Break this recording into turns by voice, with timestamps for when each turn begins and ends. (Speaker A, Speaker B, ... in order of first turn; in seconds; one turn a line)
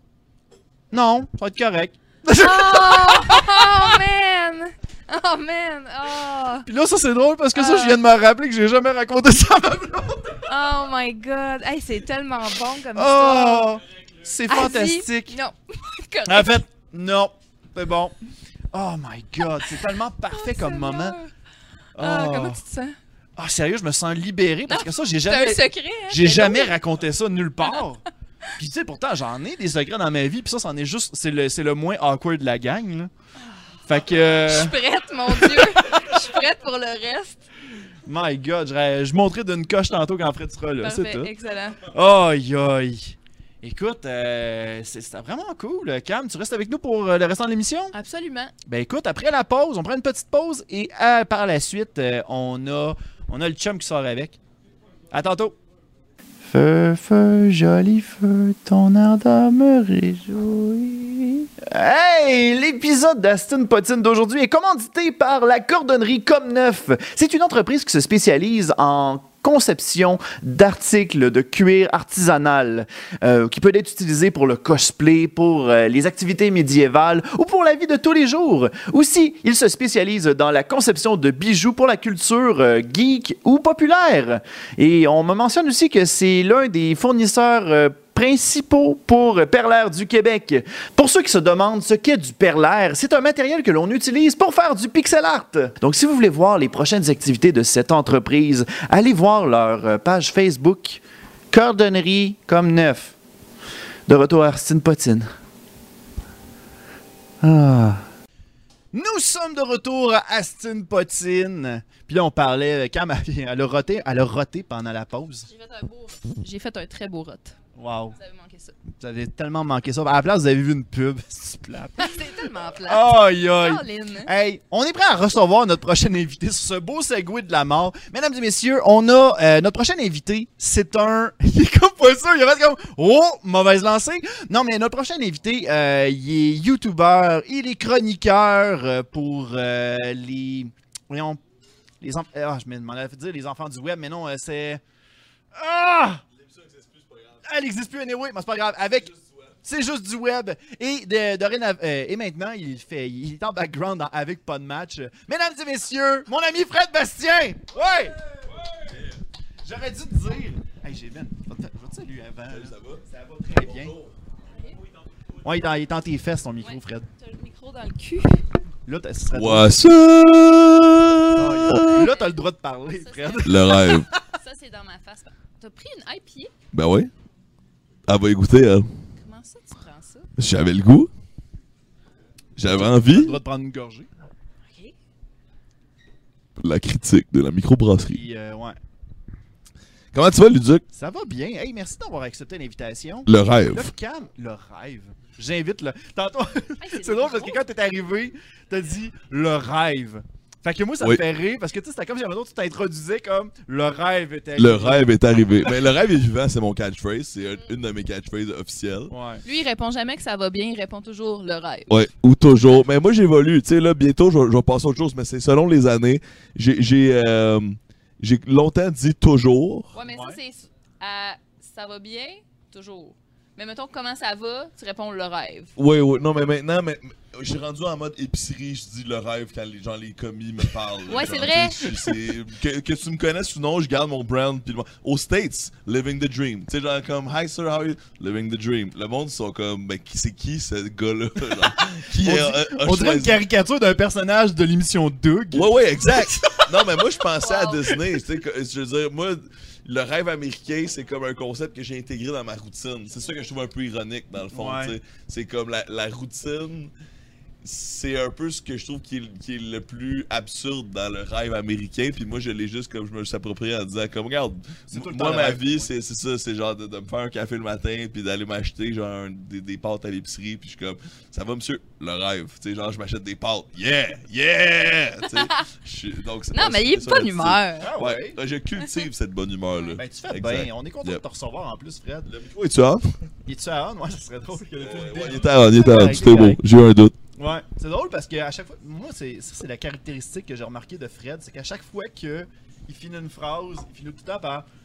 Speaker A: 0.9-4.0
Speaker B: 2.3-6.7
Speaker A: 6.7-10.5
Speaker B: 7.5-8.0
Speaker B: 10.5-13.7
Speaker A: 12.9-15.3
Speaker B: 14.5-16.6
Speaker A: 16.3-18.1
Speaker A: 18.7-21.2
Speaker B: 20.3-21.3
Speaker A: 21.9-22.6
Speaker B: 22.0-23.0
Speaker A: 23.4-28.0
Speaker B: 24.7-26.7
Speaker A: 28.6-33.1
Speaker A: 33.9-34.8
Speaker B: 34.4-37.4
Speaker A: 35.3-36.2
Speaker A: 38.0-47.9
Speaker B: 40.8-41.8
Speaker B: 47.9-48.5
Speaker A: 48.6-54.4
Speaker A: 55.1-55.5
Speaker A: 56.5-103.1
Speaker A: 104.1-105.3
Speaker A: 107.4-108.0
Speaker A: 108.9-115.5
Speaker B: 115.5-117.5
Speaker A: 117.7-118.2
Speaker B: 118.1-118.7
Speaker A: 119.0-141.4
Speaker B: 122.0-124.3
Speaker A: 142.0-144.8
Speaker A: 145.5-146.2
Speaker A: 147.4-158.2
Speaker A: 159.6-163.9
Speaker C: 162.5-163.0
Speaker A: 165.4-167.1
Speaker B: 166.6-168.4
Speaker A: 168.8-169.7
Speaker C: 169.3-172.1
Speaker A: 171.3-174.2
Speaker B: 171.7-172.3
Speaker B: 172.9-176.5
Speaker C: 173.4-174.1
Speaker C: 176.7-177.1
Speaker C: 178.1-178.9
Speaker B: 179.2-180.3
Speaker C: 180.4-181.1
Speaker C: 182.6-183.4
Speaker A: 182.6-184.1
Speaker B: 184.7-184.9
Speaker C: 186.6-188.2
Speaker A: 188.0-188.8
Speaker C: 190.1-190.8
Speaker A: 190.9-205.1
Speaker C: 193.3-193.9
Speaker B: 196.8-197.6
Speaker C: 204.6-209.1
Speaker A: 209.1-209.4
Speaker B: 209.4-211.9
Speaker C: 211.9-219.9
Speaker B: 219.9-225.7
Speaker A: 220.1-220.4
Speaker C: 225.8-243.4
Speaker B: 231.1-231.8
Speaker A: 241.5-246.7
Speaker C: 245.5-256.9
Speaker B: 247.4-247.8
Speaker A: 254.5-255.0
Speaker C: 257.6-281.2
Speaker A: 264.9-265.9
Speaker B: 275.4-275.6
Speaker B: 276.5-277.9
Speaker A: 277.8-278.4
Speaker B: 279.7-280.0
Speaker A: 279.9-282.3
Speaker C: 282.3-283.1
Speaker A: 283.4-286.6
Speaker C: 284.8-287.1
Speaker A: 287.4-294.7